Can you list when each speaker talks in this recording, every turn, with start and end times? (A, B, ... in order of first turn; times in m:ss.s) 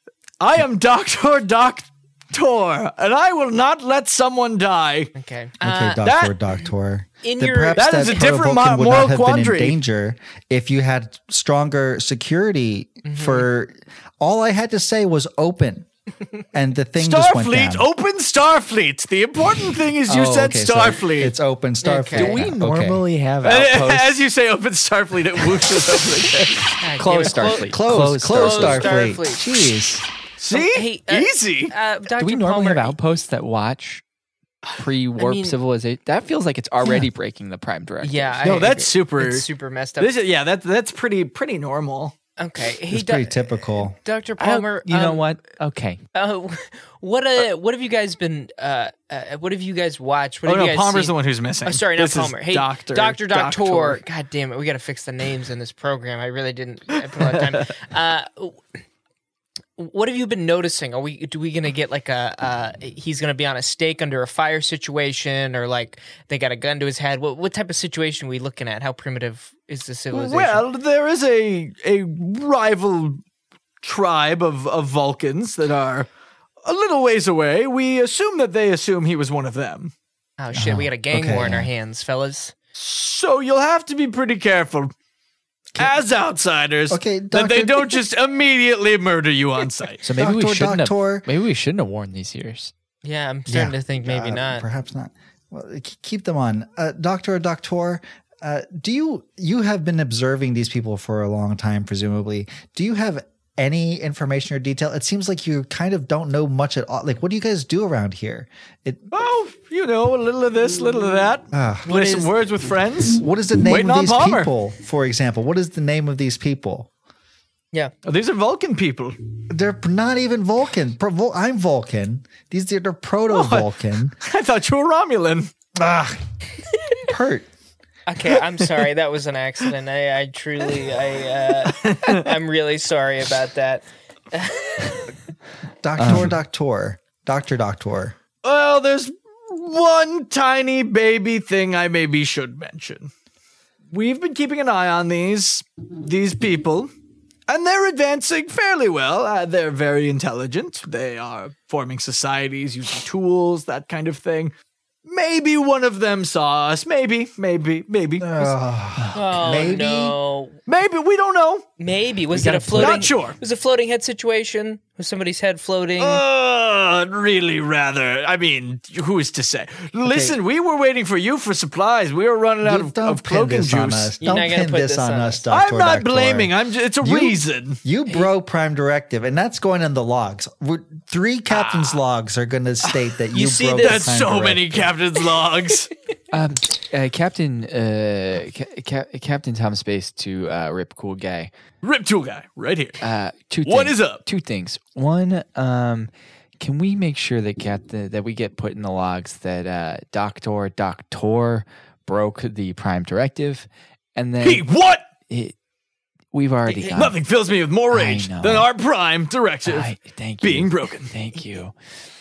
0:00.4-0:05.1 A
0:05.2-0:06.0 B
0:05.6-0:15.9 C
0:06.0-0:06.4 A
0:07.2-0:08.3 B
0:07.7-0:09.8 A
0:13.0-0:13.5 B
0:16.5-0:17.9 C
0:17.0-0:21.3 A
0:20.1-0:23.0 C
0:21.8-0:22.4 B
0:22.1-0:24.2 D
0:23.4-0:26.8 A
0:26.8-0:29.6 B
0:27.0-0:29.0 D
0:27.6-0:30.1 C
0:30.4-0:31.7 A
0:30.5-0:33.0 B
0:32.2-0:34.0 D
0:34.6-0:35.6 B
0:34.8-0:38.5 D
0:38.0-0:40.1 B
0:38.4-0:39.5 A
0:40.0-0:42.1 A
0:42.4-0:45.3 B
0:42.9-0:44.0 C
0:44.4-0:46.0 D
0:46.1-0:51.1 B
0:50.4-0:54.0 A
0:51.6-0:58.6 B
0:59.8-1:10.6 B
1:10.1-1:13.2 A
1:13.8-1:16.1 A
1:16.6-1:19.9 A
1:20.4-1:22.5 B
1:20.5-1:21.7 C
1:22.7-1:24.9 A
1:25.8-1:30.0 A
1:26.9-1:28.0 C
1:30.0-1:32.7 D
1:30.2-1:31.3 C
1:33.0-1:34.6 B
1:33.5-1:49.1 C
1:49.1-1:54.5 A
1:51.5-1:51.9 C
1:51.8-1:52.3 B
1:53.1-1:56.9 C
1:58.0-1:59.2 A
1:59.5-2:04.2 C
2:03.3-2:03.7 A
2:04.2-2:05.5 A
2:05.7-2:06.2 C
2:07.1-2:07.5 C
2:08.1-2:15.1 B
2:11.6-2:12.3 A
2:15.8-2:18.2 C
2:16.0-2:16.3 D
2:18.4-2:23.1 A
2:23.9-2:26.9 A
2:27.5-2:34.5 A
2:35.0-2:38.5 A
2:38.2-2:40.2 C
2:39.1-2:40.6 B
2:40.7-2:41.6 A
2:41.8-2:46.2 B
2:42.3-2:43.1 D
2:42.8-2:43.4 A
2:46.0-2:54.2 A
2:50.0-2:50.4 C
2:52.6-3:04.9 C
2:54.2-2:55.4 B
2:55.5-2:57.8 A
3:01.5-3:02.0 A
3:03.3-3:04.1 B
3:03.8-3:05.9 A
3:06.3-3:11.5 D
3:11.8-3:13.0 A
3:13.0-3:24.6 D
3:13.6-3:14.2 A
3:24.4-3:25.0 A
3:25.3-3:25.6 D
3:26.3-3:27.2 D
3:26.6-3:27.0 B
3:26.9-3:31.1 A
3:27.9-3:28.7 D
3:29.6-3:31.8 D